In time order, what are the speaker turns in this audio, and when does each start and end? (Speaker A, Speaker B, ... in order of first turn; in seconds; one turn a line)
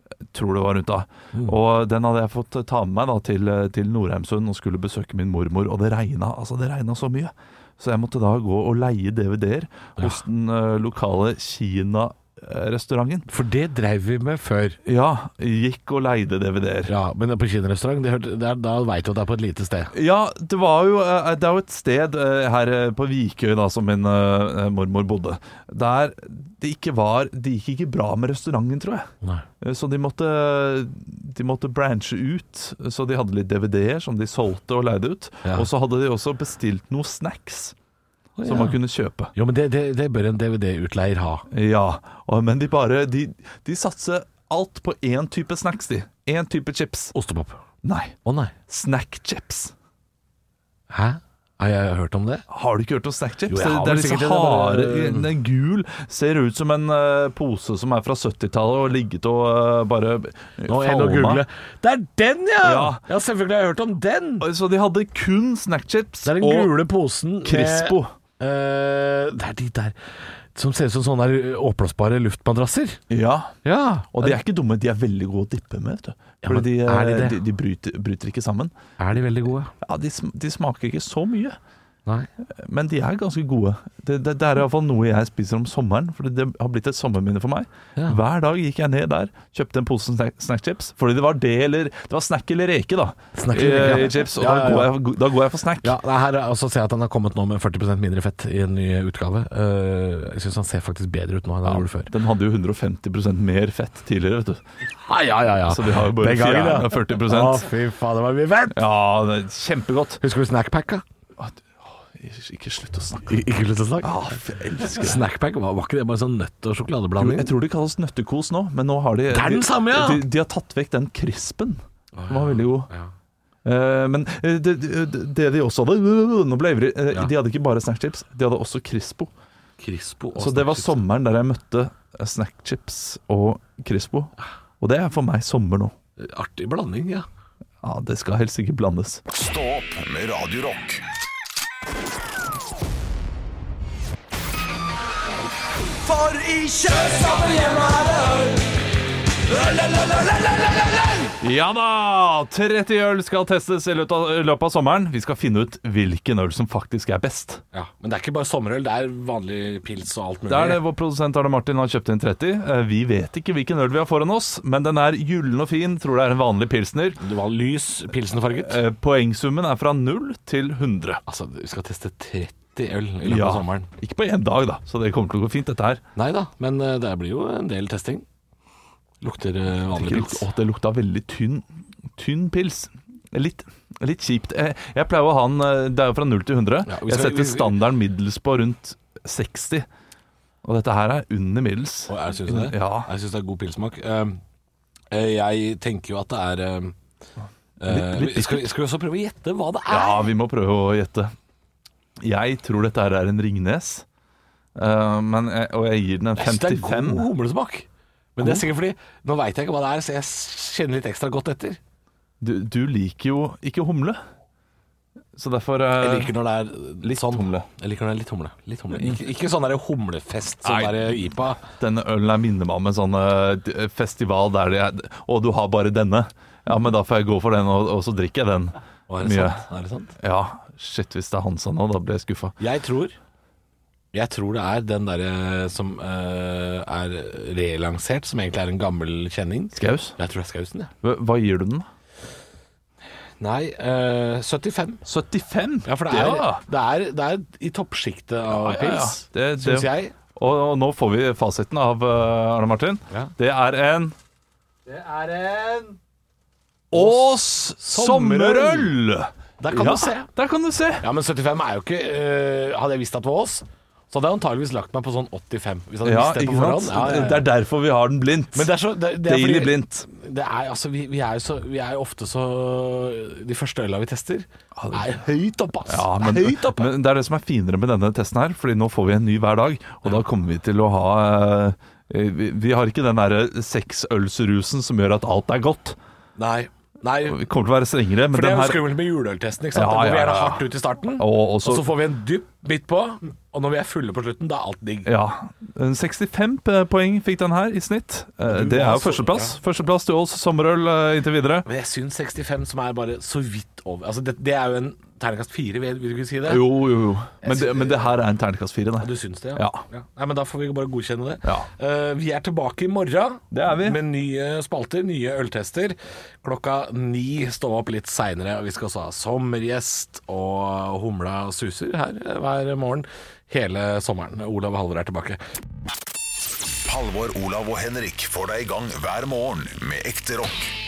Speaker A: 0.3-13.3
Speaker B: 13.3-14.8
Speaker A: 14.8-16.9
Speaker B: 16.9-19.9
Speaker A: 19.9-29.1
Speaker A: 29.6-37.8
Speaker B: 38.4-38.8
Speaker A: 38.5-39.3
Speaker B: 39.3-41.4
Speaker A: 41.5-47.1
Speaker B: 47.1-47.6
Speaker A: 47.8-48.1
Speaker B: 48.2-48.5
Speaker A: 48.7-49.7
Speaker B: 50.9-52.5
Speaker A: 52.5-61.4
Speaker B: 53.5-55.3
Speaker B: 60.7-64.5
Speaker A: 62.6-63.0
Speaker A: 64.4-66.8
Speaker B: 66.2-70.0
Speaker A: 67.4-68.1
Speaker B: 70.5-73.0
Speaker A: 73.1-73.6
Speaker B: 73.6-74.4
Speaker A: 74.1-78.7
Speaker B: 76.4-77.4
Speaker B: 79.0-79.7
Speaker A: 79.8-81.6
Speaker A: 82.6-95.9
Speaker B: 93.3-94.9
Speaker B: 95.8-102.1
Speaker A: 101.6-104.6
Speaker B: 105.1-108.8
Speaker A: 105.7-107.7
Speaker A: 108.7-110.2
Speaker B: 110.2-111.0
Speaker A: 111.4-113.3
Speaker B: 113.3-114.2
Speaker A: 114.0-115.2
Speaker B: 115.0-117.5
Speaker A: 117.2-122.9
Speaker B: 119.3-120.2
Speaker B: 122.2-123.1
Speaker A: 123.7-129.3
Speaker B: 129.8-131.1
Speaker A: 130.3-136.0
Speaker B: 136.2-137.3
Speaker A: 137.8-139.2
Speaker C: 139.3-141.0
Speaker A: 149.6-157.6
Speaker B: 157.7-160.8
Speaker A: 160.5-167.2
Speaker B: 167.2-168.8
Speaker A: 168.5-171.2
Speaker B: 171.3-173.9
Speaker A: 173.2-176.0
Speaker B: 176.2-178.2
Speaker B: 179.2-180.5
Speaker A: 179.9-189.9
Speaker B: 186.9-187.8
Speaker A: 190.6-193.1
Speaker B: 192.1-194.4
Speaker B: 195.1-196.9
Speaker B: 197.8-200.3
Speaker A: 197.9-198.7
Speaker A: 199.9-201.3
Speaker A: 202.2-204.1
Speaker A: 204.8-207.3
Speaker B: 206.4-211.8
Speaker A: 212.4-214.2
Speaker A: 215.4-216.3
Speaker B: 216.0-221.6
Speaker A: 217.0-217.7
Speaker A: 218.9-219.2
Speaker A: 220.6-221.1
Speaker A: 221.7-229.6
Speaker B: 229.1-230.1
Speaker A: 230.2-232.6
Speaker B: 232.6-233.2
Speaker B: 234.1-240.9
Speaker A: 239.8-240.2
Speaker A: 241.0-241.9
Speaker B: 243.4-245.0
Speaker A: 245.1-246.6
Speaker B: 245.9-250.2
Speaker A: 248.5-254.2
Speaker B: 254.9-255.9
Speaker A: 256.9-261.0
Speaker B: 256.9-258.9
Speaker B: 259.6-260.3
Speaker B: 261.0-267.5
Speaker A: 266.0-270.1
Speaker B: 268.5-276.9
Speaker A: 274.8-275.2
Speaker A: 275.9-286.0
Speaker B: 286.4-287.4
Speaker A: 287.2-288.8
Speaker B: 288.3-295.1
Speaker A: 289.7-290.6
Speaker A: 291.2-291.9
Speaker A: 295.1-301.7
Speaker B: 298.4-299.6
Speaker B: 301.7-306.7
Speaker A: 306.5-309.8
Speaker B: 307.4-308.1
Speaker B: 309.0-325.4
Speaker A: 313.5-314.0
Speaker C: 326.9-330.8